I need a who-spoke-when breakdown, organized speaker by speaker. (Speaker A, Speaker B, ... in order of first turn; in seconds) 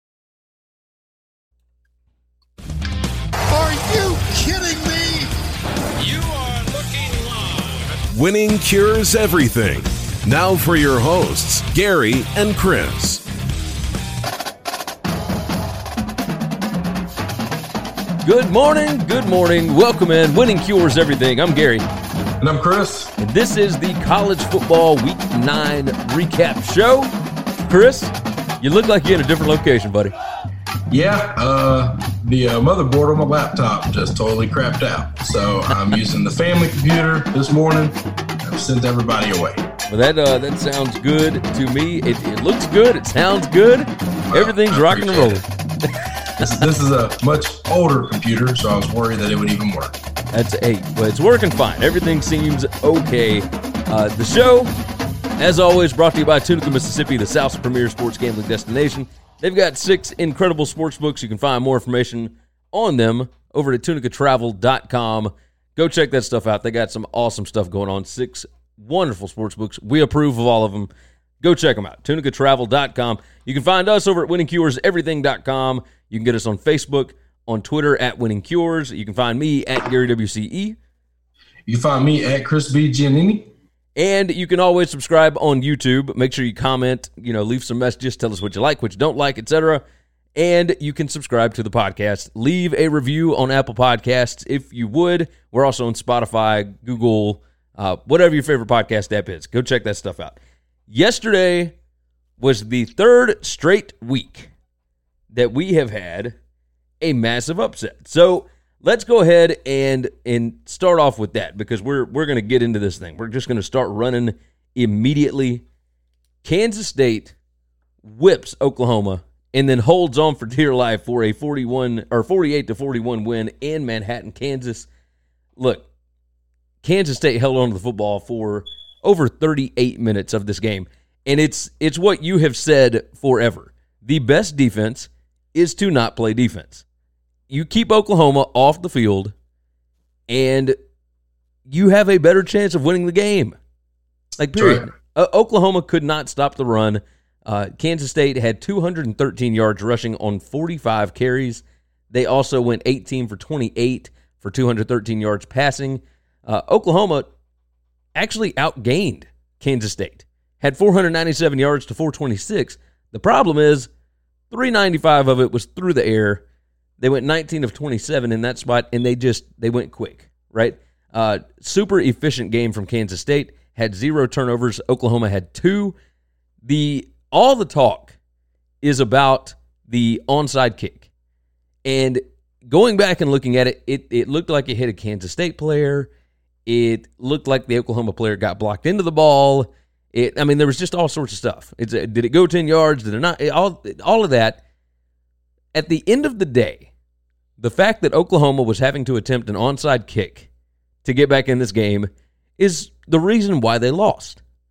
Speaker A: 3.5-5.3, 6.0-13.2
Speaker B: 18.2-21.9, 23.2-27.1, 27.6-30.1, 39.9-45.5, 50.3-54.7, 55.4-70.9, 71.4-80.8, 84.0-89.8, 90.4-100.4, 100.9-101.8, 102.4-104.5, 105.3-106.3, 107.0-115.6, 116.4-117.3, 118.0-124.9, 125.6-125.9, 126.8-136.8, 137.5-139.3, 140.3-140.8, 141.7-143.6, 144.4-157.3, 158.2-163.9, 164.5-166.4, 167.0-176.0, 176.7-178.2, 178.8-181.1, 181.9-186.1, 186.7-194.6, 195.7-196.9, 197.6-200.5, 201.0-204.4
Speaker C: 22.4-23.1, 30.9-39.6, 44.3-45.4, 46.4-50.0, 81.7-83.5, 144.6-144.8